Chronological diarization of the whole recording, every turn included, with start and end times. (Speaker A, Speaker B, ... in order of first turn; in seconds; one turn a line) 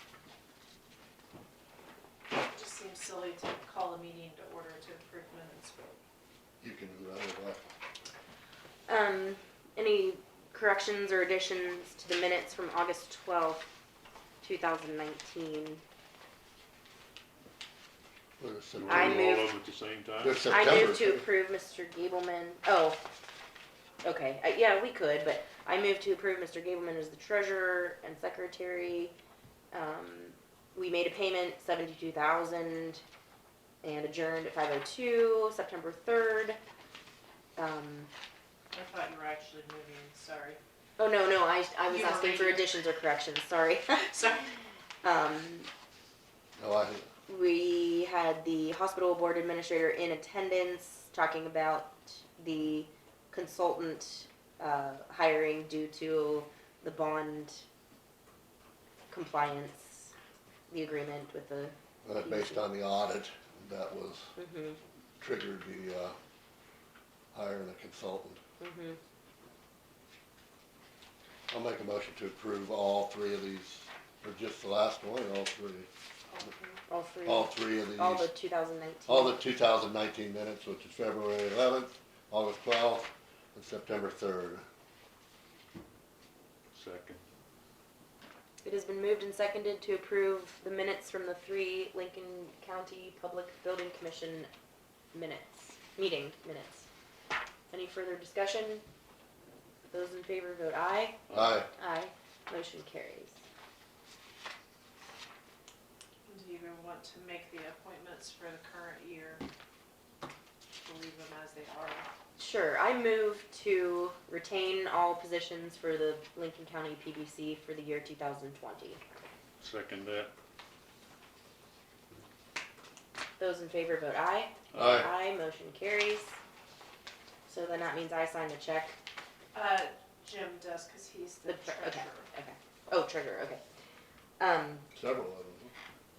Speaker A: 2.3-6.0
Speaker B: 6.6-7.6
Speaker C: 8.9-13.7
Speaker C: 14.4-15.8
Speaker B: 18.4-19.3
Speaker D: 18.8-20.6
Speaker C: 18.9-19.5
Speaker B: 20.2-21.3
Speaker C: 20.5-23.0
Speaker C: 24.0-29.1
Speaker C: 29.7-33.0
Speaker C: 33.8-36.6
Speaker C: 37.5-38.1
Speaker A: 38.7-40.6
Speaker C: 41.0-44.0
Speaker A: 41.9-42.8
Speaker A: 44.0-44.6
Speaker C: 45.0-45.7
Speaker B: 46.6-47.1
Speaker C: 47.3-57.6
Speaker C: 59.1-60.1
Speaker C: 60.7-62.6
Speaker B: 62.0-64.3
Speaker C: 64.4-64.8
Speaker B: 65.2-66.2
Speaker B: 67.3-68.4
Speaker C: 68.6-69.0
Speaker B: 71.5-75.9
Speaker A: 76.3-76.8
Speaker C: 76.9-79.4
Speaker B: 77.2-78.3
Speaker B: 79.1-84.6
Speaker D: 86.7-87.2
Speaker C: 88.6-94.5
Speaker C: 95.1-96.9
Speaker C: 97.7-98.8
Speaker C: 99.9-101.2
Speaker D: 101.3-101.6
Speaker B: 101.3-101.7
Speaker C: 101.8-103.4
Speaker A: 106.2-109.4
Speaker A: 110.8-112.1
Speaker C: 112.4-119.0
Speaker D: 119.6-120.3
Speaker C: 123.4-126.4
Speaker D: 124.7-125.1
Speaker B: 124.7-125.1
Speaker C: 127.5-129.0
Speaker A: 129.5-132.3
Speaker C: 131.4-133.6
Speaker C: 134.4-134.8
Speaker B: 134.9-135.7